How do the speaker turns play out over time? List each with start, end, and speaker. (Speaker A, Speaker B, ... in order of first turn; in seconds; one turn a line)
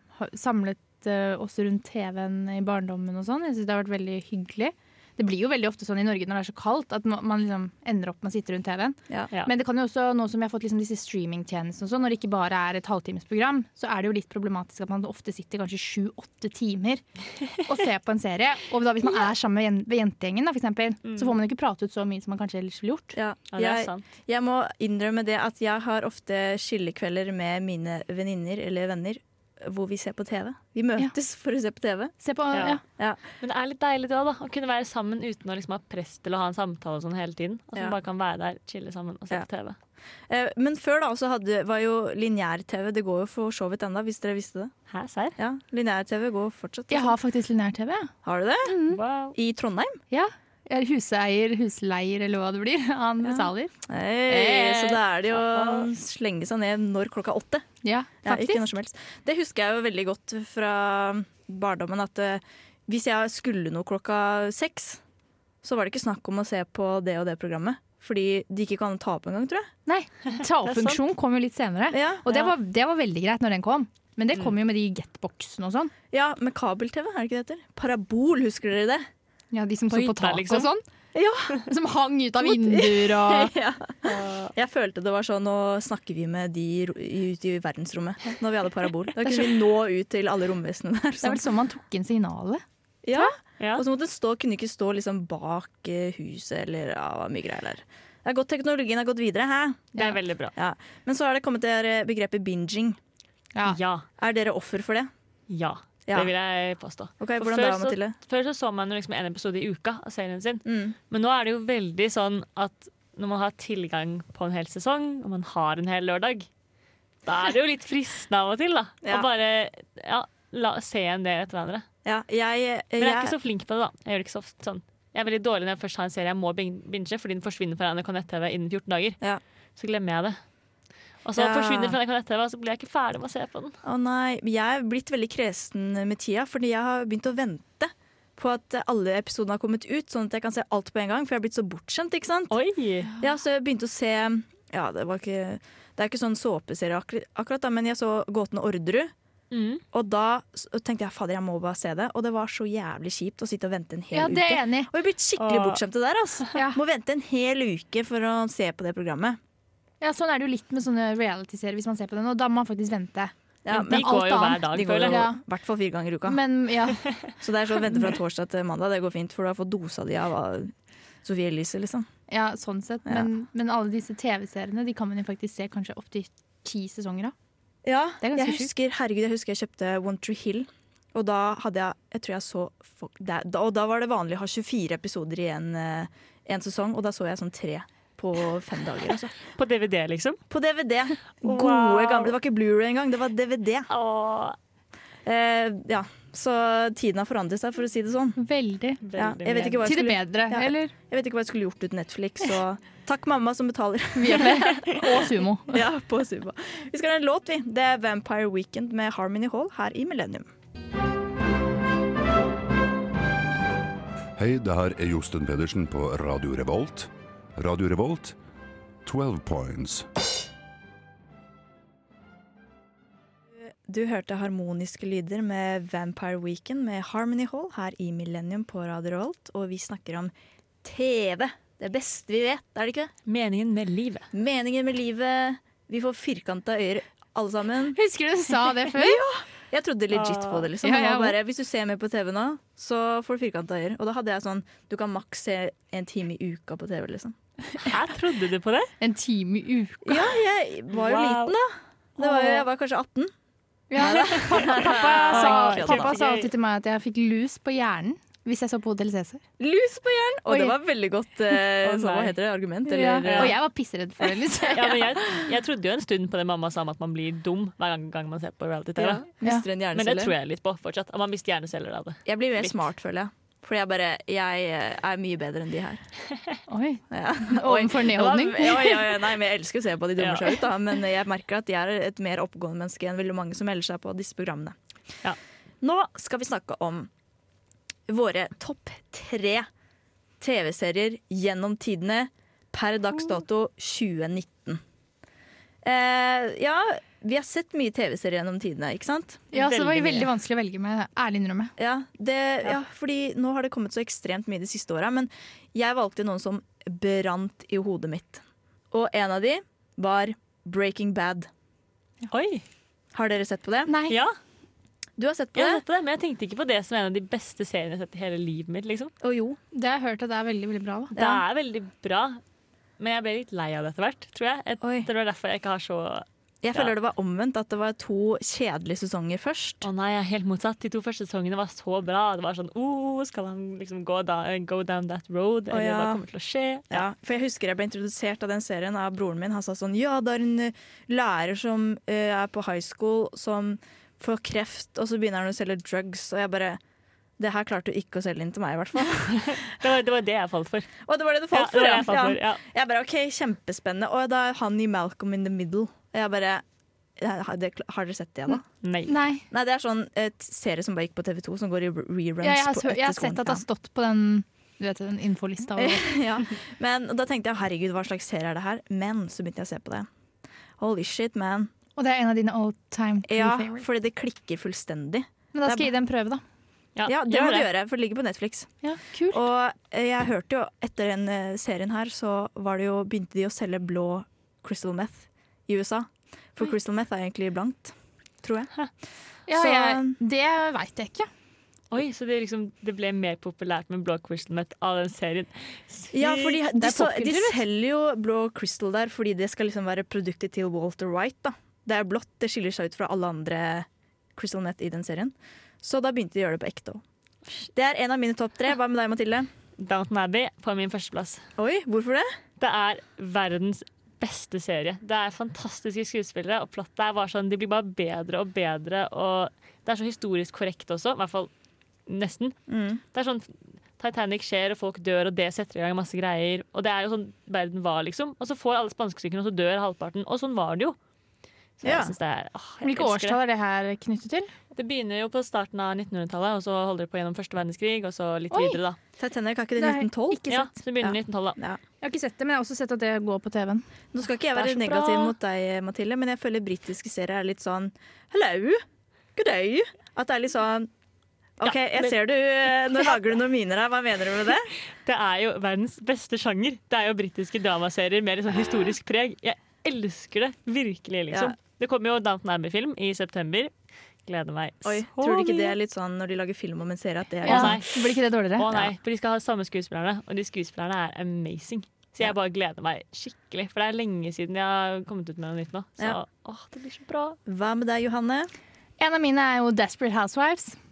Speaker A: 0.2-17.0
Speaker A: 17.6-23.2
Speaker B: 21.1-21.3
Speaker C: 23.1-32.1
Speaker B: 23.5-24.0
Speaker A: 32.2-32.8
Speaker B: 33.4-39.8
Speaker C: 40.3-44.7
Speaker B: 44.9-45.4
Speaker C: 45.4-47.2
Speaker A: 46.9-48.1
Speaker C: 48.2-48.8
Speaker A: 48.6-49.0
Speaker B: 48.9-49.4
Speaker C: 49.3-50.0
Speaker A: 50.1-53.7
Speaker C: 53.2-57.7
Speaker B: 55.3-55.9
Speaker A: 57.8-58.6
Speaker C: 58.2-65.0
Speaker C: 65.6-69.7
Speaker A: 69.9-75.9
Speaker B: 70.6-71.0
Speaker C: 71.9-72.3
Speaker C: 76.1-79.1
Speaker A: 79.5-80.8
Speaker B: 79.9-80.7
Speaker C: 81.1-81.6
Speaker A: 81.6-83.5
Speaker C: 82.4-91.4
Speaker B: 84.1-84.5
Speaker A: 91.2-93.3
Speaker C: 93.0-99.9
Speaker B: 93.6-93.8
Speaker B: 100.0-100.5
Speaker C: 100.5-103.0
Speaker B: 103.7-104.1
Speaker C: 104.2-105.1
Speaker B: 105.5-116.5
Speaker C: 107.2-108.2
Speaker C: 110.7-111.0
Speaker B: 117.3-121.9
Speaker C: 122.0-123.3
Speaker B: 123.0-129.2
Speaker B: 129.8-130.4
Speaker B: 131.2-133.8
Speaker C: 131.4-132.0
Speaker C: 133.8-142.6
Speaker B: 142.5-143.1
Speaker C: 143.2-149.1
Speaker B: 149.5-149.8
Speaker C: 149.9-159.4
Speaker A: 154.1-154.9
Speaker B: 155.4-155.8
Speaker A: 156.5-156.8
Speaker A: 160.0-165.4
Speaker C: 163.7-166.4
Speaker B: 163.7-165.3
Speaker A: 166.3-167.0
Speaker C: 167.4-170.7
Speaker C: 171.2-172.1
Speaker A: 172.3-177.3
Speaker C: 177.8-189.4
Speaker A: 178.2-178.7
Speaker B: 189.5-190.4
Speaker C: 190.5-193.9
Speaker B: 191.4-192.3
Speaker B: 193.9-194.6
Speaker C: 195.2-198.4
Speaker A: 198.4-199.0
Speaker B: 199.0-199.9
Speaker C: 199.2-205.1
Speaker A: 199.8-200.9
Speaker A: 204.2-205.8
Speaker C: 205.7-210.5
Speaker D: 214.4-218.4
Speaker D: 219.1-220.1
Speaker C: 223.6-230.3
Speaker C: 230.8-233.1
Speaker B: 233.3-234.3
Speaker C: 234.3-238.0
Speaker A: 237.9-239.2
Speaker C: 238.9-247.4
Speaker B: 240.1-240.7
Speaker A: 240.8-241.4
Speaker B: 247.8-248.9
Speaker A: 249.0-250.3
Speaker C: 250.1-253.3
Speaker B: 250.9-251.6
Speaker A: 252.2-252.6
Speaker A: 253.9-259.4
Speaker C: 254.0-256.1
Speaker B: 254.5-256.5
Speaker C: 259.6-263.6
Speaker A: 260.5-260.8
Speaker B: 261.8-262.3
Speaker A: 262.9-265.1
Speaker B: 263.2-263.6
Speaker B: 264.7-269.3
Speaker C: 269.0-270.3
Speaker B: 269.9-272.8
Speaker C: 272.3-276.0
Speaker A: 276.7-279.1
Speaker C: 277.1-284.8
Speaker B: 280.2-280.6
Speaker C: 285.8-287.1
Speaker C: 288.1-289.7
Speaker C: 290.4-294.8
Speaker C: 295.8-299.5
Speaker B: 299.5-300.3
Speaker A: 299.5-301.7
Speaker C: 301.8-311.5
Speaker B: 312.3-312.6
Speaker C: 313.1-313.9
Speaker A: 313.9-314.2
Speaker C: 315.2-315.8
Speaker B: 315.6-319.1
Speaker C: 319.2-319.6
Speaker A: 319.7-321.1
Speaker C: 321.1-321.4
Speaker B: 321.2-322.4
Speaker B: 323.0-326.9
Speaker C: 324.8-325.1
Speaker C: 326.6-329.9
Speaker B: 329.8-337.1
Speaker C: 335.7-336.2
Speaker C: 336.9-346.8
Speaker C: 347.4-349.6
Speaker B: 349.3-350.9
Speaker C: 351.1-356.6
Speaker B: 351.5-352.6
Speaker C: 357.2-358.6
Speaker B: 358.8-359.2
Speaker A: 359.1-359.4
Speaker C: 359.5-363.6
Speaker A: 362.4-366.5
Speaker C: 365.8-370.1
Speaker C: 370.8-371.7
Speaker A: 372.0-373.9
Speaker C: 373.3-375.9
Speaker A: 375.5-376.4
Speaker B: 377.0-377.7
Speaker C: 377.1-378.7
Speaker A: 378.8-379.4
Speaker C: 379.3-388.7
Speaker A: 389.5-391.3
Speaker C: 389.5-390.2
Speaker B: 391.9-396.6
Speaker C: 396.1-407.0
Speaker A: 396.7-397.6
Speaker C: 407.7-409.5
Speaker B: 409.8-411.4
Speaker C: 411.6-412.3
Speaker B: 412.6-421.5
Speaker B: 422.1-422.6
Speaker C: 422.7-423.0
Speaker B: 423.1-431.0
Speaker B: 431.8-433.4
Speaker C: 431.8-432.1
Speaker A: 432.8-434.5
Speaker B: 434.8-439.0
Speaker A: 438.5-438.8
Speaker C: 439.2-440.4
Speaker A: 439.8-440.8
Speaker B: 440.5-441.6
Speaker C: 441.0-441.8
Speaker A: 442.0-443.9
Speaker C: 444.1-448.8
Speaker B: 444.6-445.3
Speaker C: 449.4-450.9
Speaker C: 451.6-454.7
Speaker B: 451.6-452.2
Speaker B: 455.1-463.7
Speaker B: 464.3-465.8
Speaker C: 464.9-467.8
Speaker B: 467.4-468.0
Speaker A: 467.4-468.9
Speaker B: 468.6-477.4
Speaker C: 477.5-478.5
Speaker A: 479.0-480.8